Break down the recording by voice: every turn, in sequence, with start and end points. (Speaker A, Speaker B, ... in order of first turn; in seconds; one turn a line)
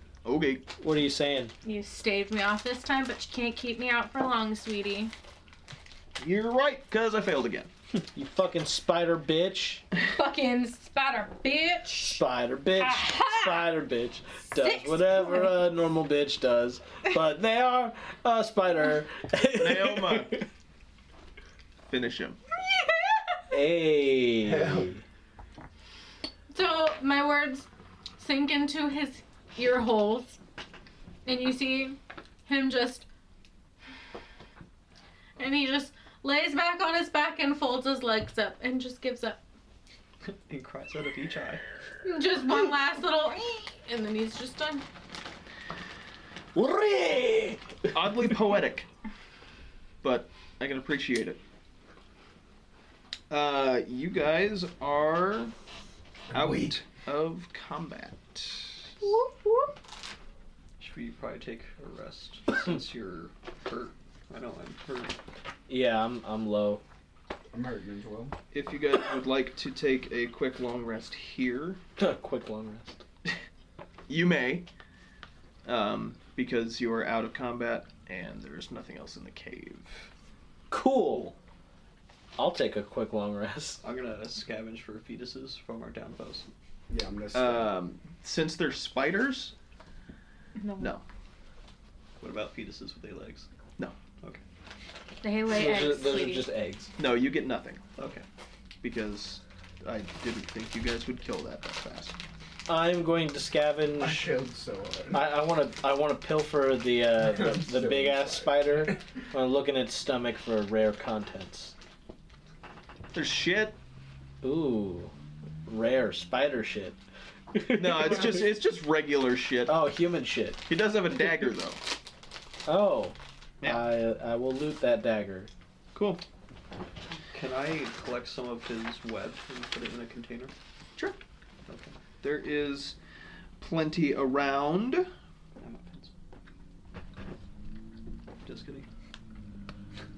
Speaker A: 0.2-0.6
Speaker B: 0.8-1.5
Speaker C: 1.6-5.1
Speaker A: 6.2-7.7
Speaker B: 8.1-9.8
Speaker C: 10.0-12.2
Speaker B: 12.1-20.4
Speaker C: 12.8-13.6
Speaker C: 14.5-15.6
Speaker A: 19.5-20.4
Speaker A: 21.9-22.4
Speaker C: 22.6-23.5
Speaker B: 23.5-25.0
Speaker D: 24.4-24.9
Speaker C: 26.5-30.4
Speaker C: 31.2-33.0
Speaker C: 35.4-39.4
Speaker E: 40.2-41.6
Speaker C: 42.0-44.8
Speaker B: 46.5-47.6
Speaker A: 47.9-48.9
Speaker A: 50.0-51.4
Speaker A: 53.3-55.5
Speaker D: 56.3-56.7
Speaker A: 56.3-58.9
Speaker C: 59.0-59.7
Speaker E: 60.8-65.2
Speaker B: 65.7-66.8
Speaker D: 67.5-68.3
Speaker A: 68.5-71.8
Speaker B: 72.0-73.0
Speaker A: 74.1-74.7
Speaker A: 75.6-80.1
Speaker B: 80.7-81.3
Speaker B: 82.4-83.8
Speaker E: 83.8-86.5
Speaker D: 86.9-87.7
Speaker A: 87.3-89.5
Speaker C: 90.5-91.0
Speaker E: 92.2-93.5
Speaker C: 95.2-96.5
Speaker B: 95.5-96.9
Speaker A: 97.0-97.8
Speaker E: 98.0-98.2
Speaker A: 98.8-102.2
Speaker B: 102.7-104.3
Speaker D: 104.0-105.2
Speaker B: 105.1-111.7
Speaker D: 107.2-109.0
Speaker A: 113.1-113.8
Speaker B: 114.4-115.1
Speaker B: 115.7-117.0
Speaker B: 117.5-118.5
Speaker A: 117.7-119.8
Speaker B: 119.7-120.6
Speaker A: 120.7-121.8
Speaker B: 122.7-125.5
Speaker A: 125.9-126.2
Speaker E: 127.3-130.5
Speaker E: 131.7-131.9
Speaker A: 132.2-133.0
Speaker A: 133.6-135.1
Speaker E: 135.6-136.1
Speaker E: 138.4-138.9